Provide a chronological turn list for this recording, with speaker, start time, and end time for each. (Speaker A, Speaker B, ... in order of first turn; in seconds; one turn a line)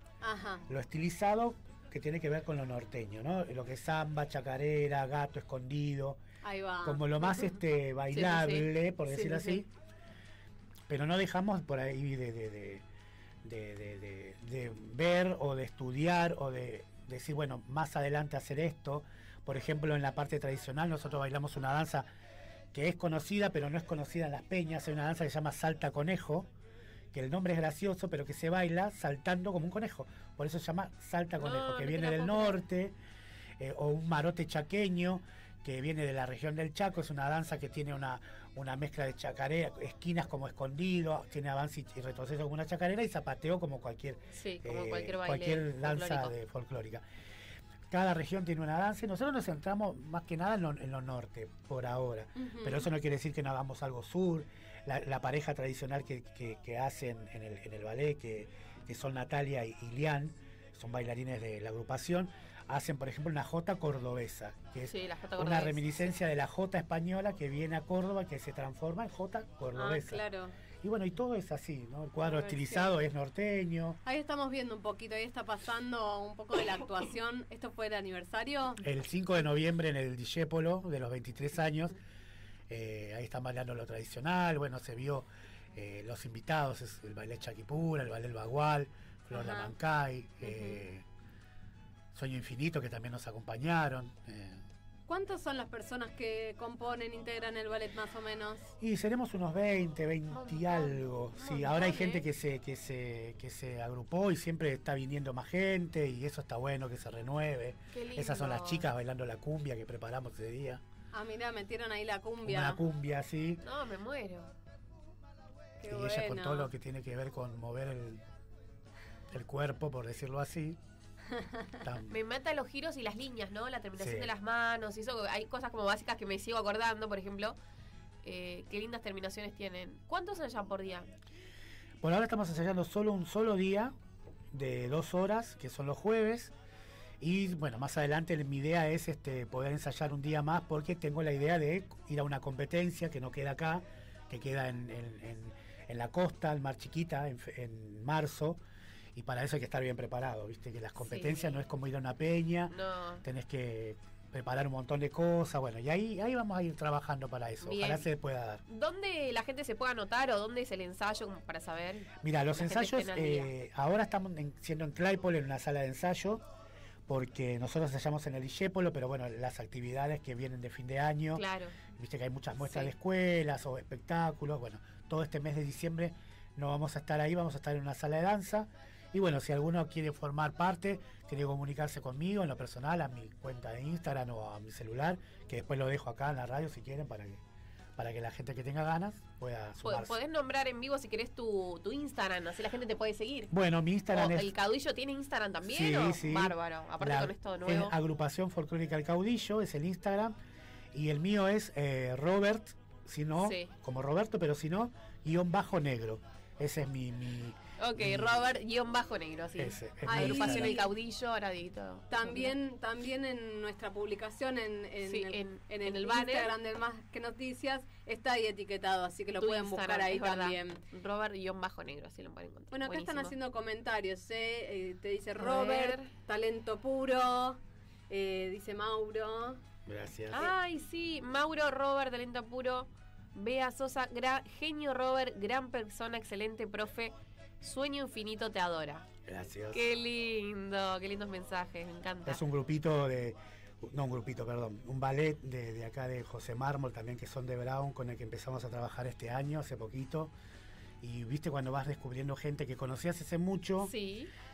Speaker A: 0.2-0.7
Speaker B: 0.7-6.2
Speaker A: 6.4-7.1
Speaker B: 6.8-9.7
Speaker C: 8.1-9.6
Speaker B: 10.9-12.8
Speaker B: 13.4-22.1
Speaker B: 22.7-26.5
Speaker B: 27.1-32.9
Speaker C: 31.4-32.6
Speaker B: 33.6-47.0
Speaker C: 44.3-46.3
Speaker B: 47.9-70.2
Speaker A: 52.4-52.9
Speaker C: 64.9-66.1
Speaker A: 69.8-70.5
Speaker B: 70.8-74.0
Speaker A: 72.2-72.9
Speaker A: 74.0-78.8
Speaker B: 78.8-81.9
Speaker B: 82.7-91.0
Speaker A: 89.3-89.7
Speaker A: 90.4-90.8
Speaker B: 92.1-94.6
Speaker A: 95.1-98.7
Speaker B: 98.8-110.8
Speaker C: 100.3-102.2
Speaker C: 107.9-108.9
Speaker A: 111.1-112.8
Speaker B: 112.4-113.6
Speaker C: 113.6-114.5
Speaker A: 115.8-116.7
Speaker B: 115.8-118.2
Speaker B: 119.3-120.8
Speaker A: 121.4-121.7
Speaker B: 121.8-122.1
Speaker C: 122.1-127.5
Speaker B: 124.0-124.3
Speaker C: 128.2-131.1
Speaker B: 132.0-133.9
Speaker B: 134.5-136.5
Speaker B: 137.2-148.6
Speaker B: 149.1-158.6
Speaker C: 151.0-151.6
Speaker C: 152.7-153.2
Speaker C: 157.6-158.1
Speaker C: 158.7-163.5
Speaker B: 162.2-166.4
Speaker B: 167.1-171.4
Speaker C: 171.3-171.8
Speaker B: 171.9-187.4
Speaker C: 172.6-172.9
Speaker B: 188.0-190.2
Speaker C: 189.8-193.5
Speaker B: 193.5-194.5
Speaker C: 194.1-197.9
Speaker B: 195.6-200.3
Speaker B: 200.9-208.5
Speaker C: 203.4-203.7
Speaker C: 207.8-212.5
Speaker B: 209.6-210.7
Speaker A: 210.0-210.9
Speaker A: 212.1-220.8
Speaker C: 215.0-216.5
Speaker C: 219.4-223.3
Speaker A: 222.7-227.6
Speaker C: 225.4-226.1
Speaker A: 228.1-229.6
Speaker B: 229.8-230.5
Speaker C: 230.3-239.1
Speaker B: 239.2-239.8
Speaker C: 239.7-242.4
Speaker B: 242.2-250.3
Speaker B: 251.0-253.9
Speaker C: 253.8-254.3